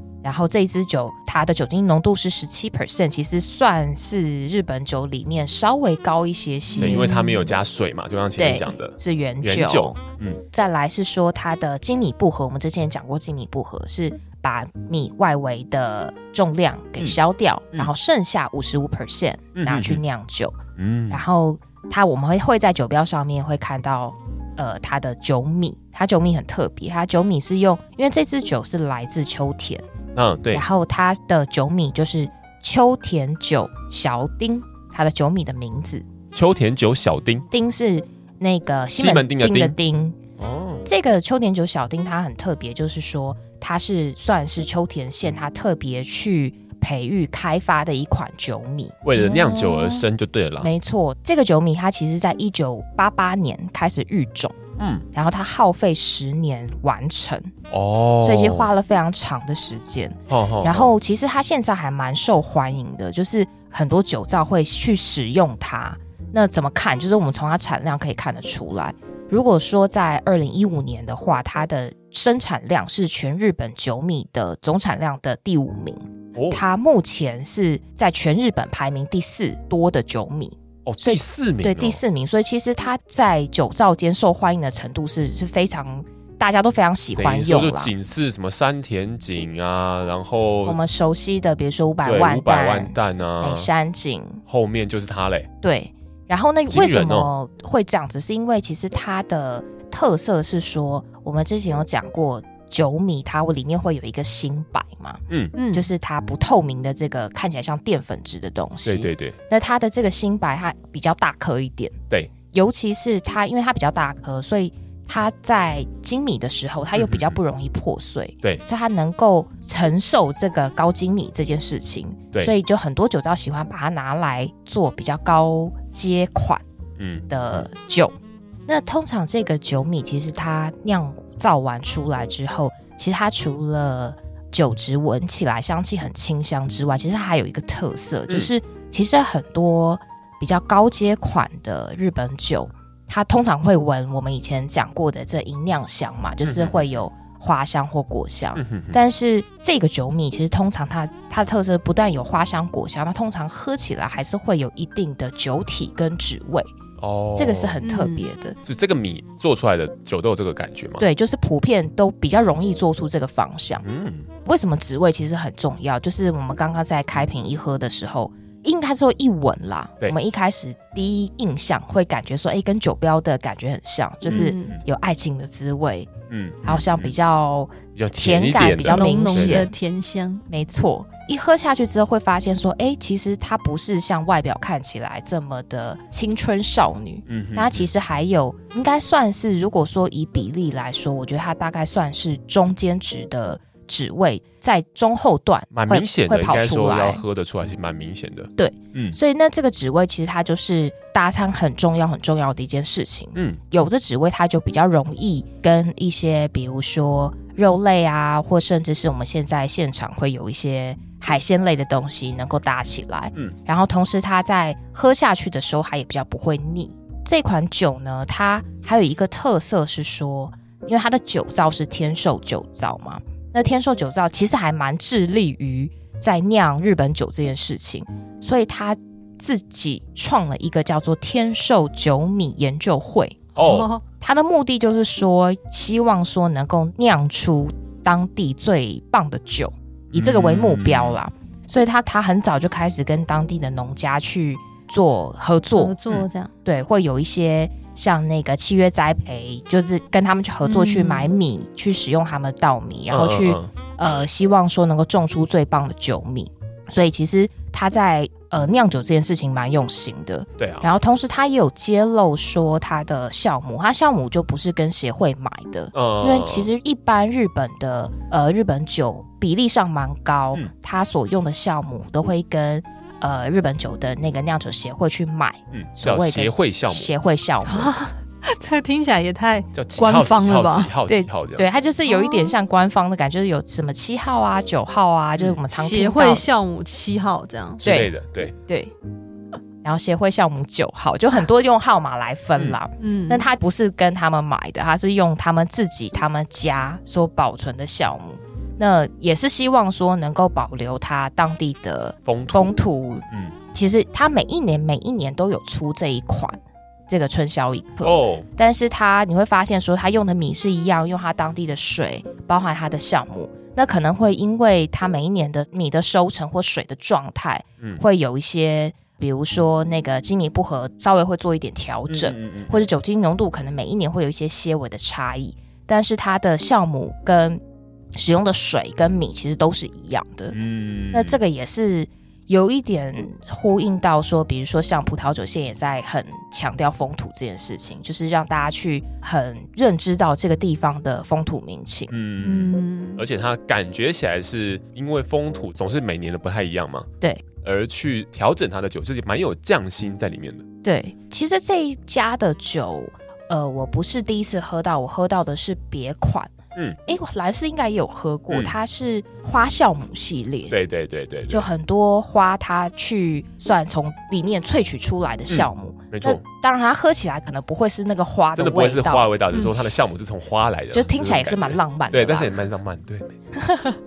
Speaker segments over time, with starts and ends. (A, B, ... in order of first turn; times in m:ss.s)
0:00.2-0:07.4 A
0:06.7-0:07.4 B
0:06.8-0:10.4 C
0:08.4-0:10.0 A
0:10.5-0:20.6 A
0:19.5-0:20.0 C
0:20.8-0:21.2 C
0:21.1-0:29.8 A
0:30.1-0:30.6 C
0:30.5-0:36.0 A
0:36.3-0:37.5 C
0:37.5-0:40.2 A
0:39.0-0:39.8 C
0:40.4-0:40.8 C
0:40.8-0:48.9 A
0:49.0-0:50.7 C
0:49.2-0:50.0 B
0:50.6-0:54.6 A
0:54.8-0:55.0 C
0:55.1-0:57.5 A
0:57.7-0:58.7 C
0:58.2-1:27.9 A
1:00.3-1:00.9 C
1:16.3-1:16.6 C
1:20.8-1:22.0 C
1:27.2-1:30.8 C
1:30.6-1:34.4 A
1:32.0-1:33.7 C
1:34.5-1:35.5 C
1:35.6-1:51.9 A
1:36.7-1:37.3 C
1:45.5-1:45.9 B
1:48.8-1:49.4 C
1:52.5-2:06.6 A
1:56.9-1:57.4 C
2:07.0-2:07.6 C
2:07.3-2:08.1 A
2:08.7-2:36.7 A
2:26.4-2:27.0 C
2:28.6-2:29.0 C
2:37.0-2:37.8 C
2:37.3-2:38.6 A
2:37.8-2:38.3 B
2:38.6-2:41.0 C
2:41.0-2:43.8 A
2:43.8-2:44.3 C
2:44.4-2:56.1 A
2:54.2-2:54.8 B
2:56.3-2:57.1 C
2:56.6-2:59.7 A
2:58.0-2:59.7 C
2:58.6-3:00.4 B
3:00.5-3:17.2 A
3:07.3-3:07.9 C
3:15.7-3:19.2 C
3:18.6-3:53.5 A
3:23.3-3:23.6 C
3:53.5-3:54.0 B
3:53.6-3:53.9 C
3:54.2-4:05.9 A
4:00.1-4:01.2 C
4:05.8-4:06.5 B
4:06.6-4:38.0 A
4:10.6-4:11.3 B
4:13.1-4:14.1 C
4:20.6-4:20.9 C
4:25.9-4:26.7 C
4:35.7-4:37.1 C
4:37.6-4:40.9 B
4:39.7-4:41.7 C
4:41.1-4:46.4 A
4:42.0-4:42.5 B
4:45.4-4:45.6 C
4:45.7-4:47.8 B
4:47.8-4:48.5 C
4:47.8-4:48.1 A
4:48.6-4:48.9 A
4:49.8-5:27.6 A
4:53.0-4:53.5 B
5:02.2-5:02.7 C
5:03.3-5:03.5 C
5:08.0-5:08.5 C
5:22.1-5:22.7 C
5:28.1-5:30.6 A
5:30.5-5:31.4 C
5:31.1-5:42.1 A
5:42.1-5:47.1 C
5:42.4-5:43.2 B
5:47.6-5:50.6 C
5:50.8-5:56.5 A
5:57.0-6:00.8 A
6:00.7-6:01.6 C
6:01.5-6:09.3 A
6:05.5-6:06.4 C
6:08.6-6:13.5 C
6:10.9-6:12.5 A
6:13.6-6:14.0 A